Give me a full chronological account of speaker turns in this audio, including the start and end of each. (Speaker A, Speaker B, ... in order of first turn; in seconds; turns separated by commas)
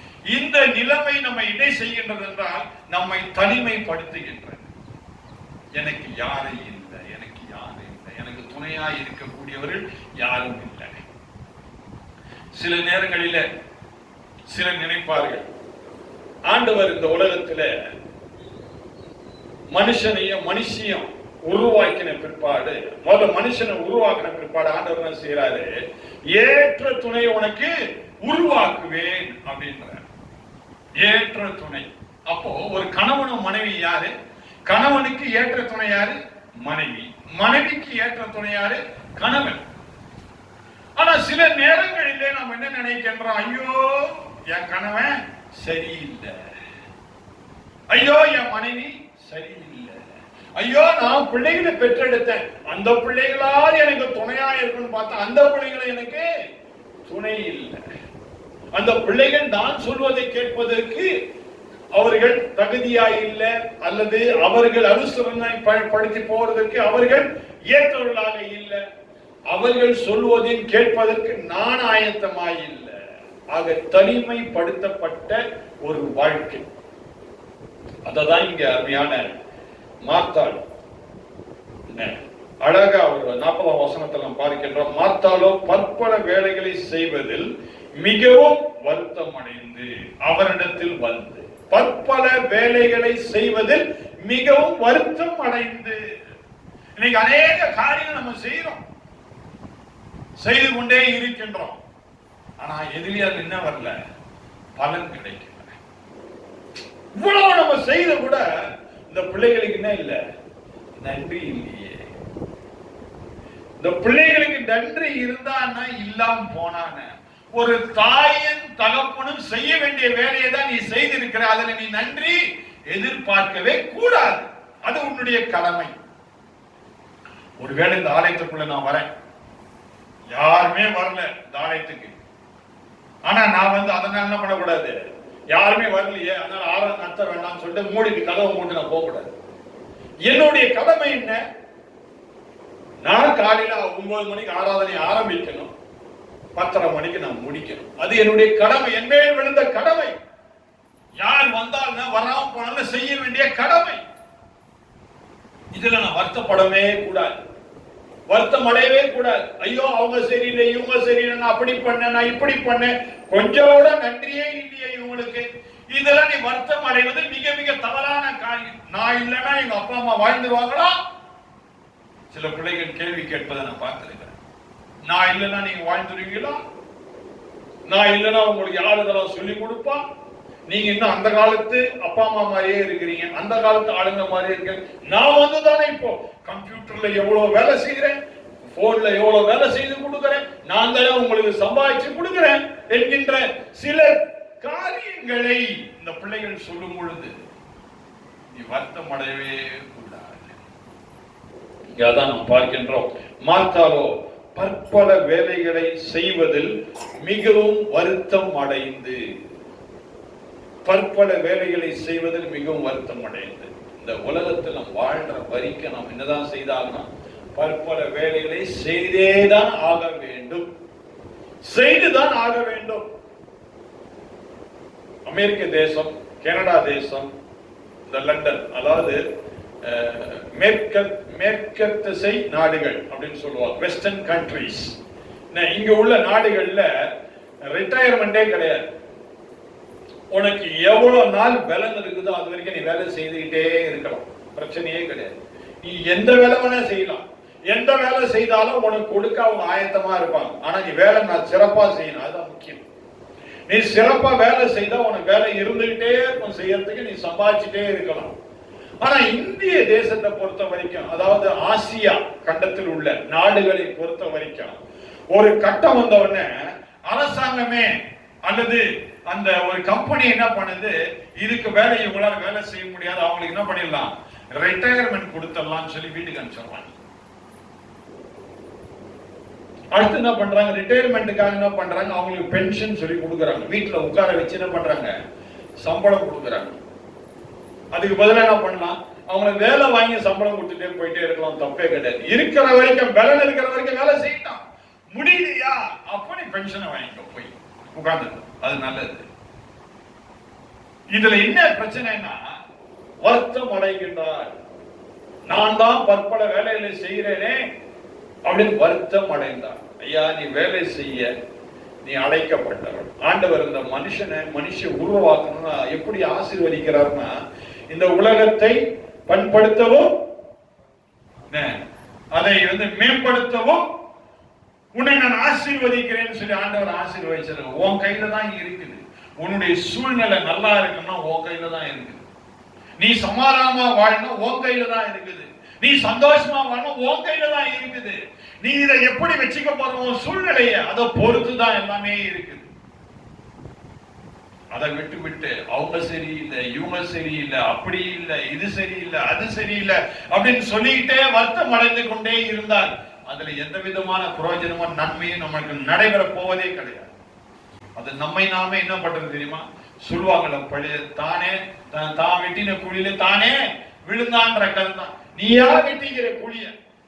Speaker A: 0.3-4.7, Speaker A: 5.7-11.0, Speaker A: 12.6-13.4, Speaker A: 14.5-15.5, Speaker A: 16.5-17.7, Speaker A: 19.7-25.7, Speaker A: 26.3-27.7, Speaker A: 28.2-30.0, Speaker A: 31.0-34.1, Speaker A: 34.7-39.6, Speaker A: 41.0-46.3, Speaker A: 47.9-50.0, Speaker A: 50.6-56.2, Speaker A: 57.0-57.8, Speaker A: 58.8-61.1, Speaker A: 61.9-68.8, Speaker A: 69.5-73.0, Speaker A: 73.5-76.7, Speaker A: 78.1-79.3, Speaker A: 80.0-80.6, Speaker A: 81.9-87.5, Speaker A: 88.0-96.0, Speaker A: 97.0-98.8, Speaker A: 100.4-101.8, Speaker A: 102.6-103.9, Speaker A: 104.8-105.7, Speaker A: 107.2-108.4, Speaker A: 109.1-110.2, Speaker A: 111.0-112.1, Speaker A: 113.8-122.4, Speaker A: 122.9-125.9, Speaker A: 127.6-129.1, Speaker A: 130.3-132.2, Speaker A: 133.2-134.9, Speaker A: 135.5-139.3, Speaker A: 140.2-141.4, Speaker A: 143.0-145.7, Speaker A: 146.6-150.2, Speaker A: 151.2-154.0, Speaker A: 155.7-157.3, Speaker A: 158.3-170.9, Speaker A: 172.3-174.3, Speaker A: 175.1-176.6, Speaker A: 177.9-180.0, Speaker A: 180.7-197.3, Speaker A: 198.5-200.6, Speaker A: 201.9-209.2, Speaker A: 210.8-220.7, Speaker A: 221.6-223.0, Speaker A: 225.3-227.3, Speaker A: 228.1-229.2, Speaker A: 229.8-234.9, Speaker A: 235.5-236.9, Speaker A: 237.7-238.9, Speaker A: 240.3-252.8, Speaker A: 253.7-258.3, Speaker A: 259.0-264.8, Speaker A: 265.3-266.5, Speaker A: 267.1-267.9, Speaker A: 268.4-276.9, Speaker A: 279.9-285.1, Speaker A: 285.8-286.8, Speaker A: 287.9-299.2, Speaker A: 301.1-302.5, Speaker A: 303.2-304.5, Speaker A: 305.5-307.6, Speaker A: 308.4-311.3, Speaker A: 312.0-317.3, Speaker A: 317.9-320.1, Speaker A: 321.5-321.8, Speaker A: 322.3-323.8, Speaker A: 324.9-332.2, Speaker A: 333.0-342.7, Speaker A: 344.7-357.1, Speaker A: 357.9-366.7